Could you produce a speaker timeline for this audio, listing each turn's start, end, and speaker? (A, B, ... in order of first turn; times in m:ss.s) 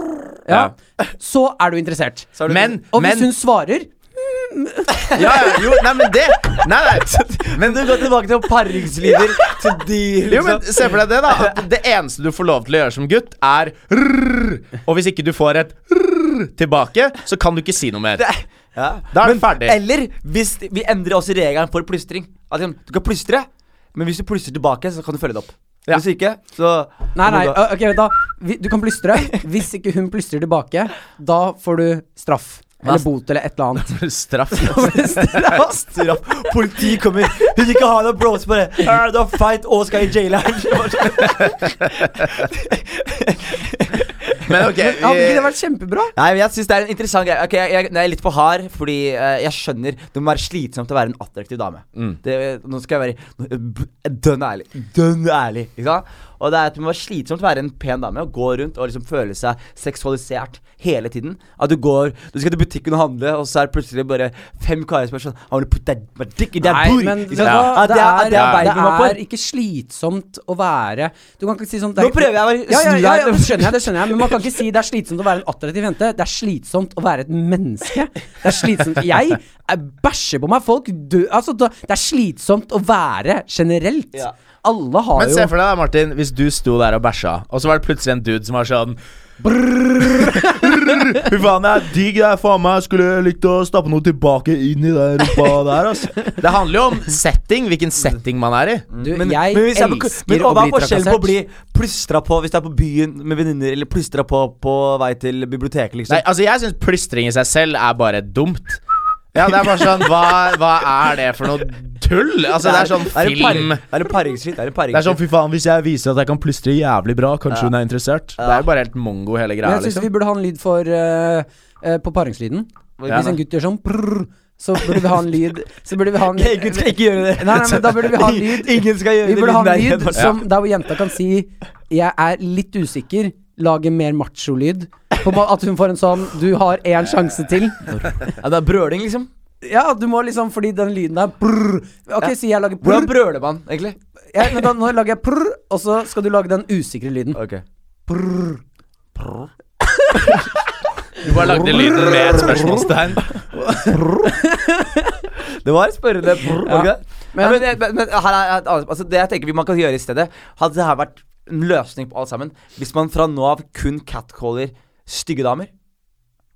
0:00.4-0:05.4 A
0:02.4-0:02.7 B
0:02.5-0:03.3 C
0:05.1-0:05.8 B
0:05.1-0:08.0 C
0:06.5-0:11.6 B
0:10.3-0:18.2 C
0:18.2-0:27.6 B
0:19.1-0:19.8 C
0:27.1-0:34.0 A
0:33.8-0:35.4 C
0:34.5-0:35.9 A
0:35.6-0:44.6 B
0:44.4-0:45.5 C
0:44.8-0:46.1 A
0:46.2-1:09.2 B
1:06.6-1:25.5 A
1:07.4-1:07.8 C
1:08.3-1:08.7 C
1:12.0-1:14.4 B
1:25.2-1:38.9 C
1:30.0-1:30.4 A
1:38.9-1:46.2 B
1:39.0-1:41.3 A
1:46.1-1:48.8 C
1:49.3-1:53.8 C
1:52.6-1:55.2 B
1:54.9-2:00.1 C
1:58.4-1:58.7 B
1:59.6-2:18.3 A
2:03.0-2:03.3 B
2:03.1-2:03.4 C
2:06.3-2:10.3 B
2:18.2-2:19.3 B
2:19.6-2:23.1 A
2:22.8-2:24.0 B
2:24.3-2:27.4 A
2:27.3-2:27.6 B
2:28.1-2:28.6 A
2:29.2-2:29.5 B
2:29.8-2:30.5 A
2:31.2-2:33.3 C
2:33.8-2:35.3 A
2:35.4-2:45.7 B
2:36.5-2:37.6 A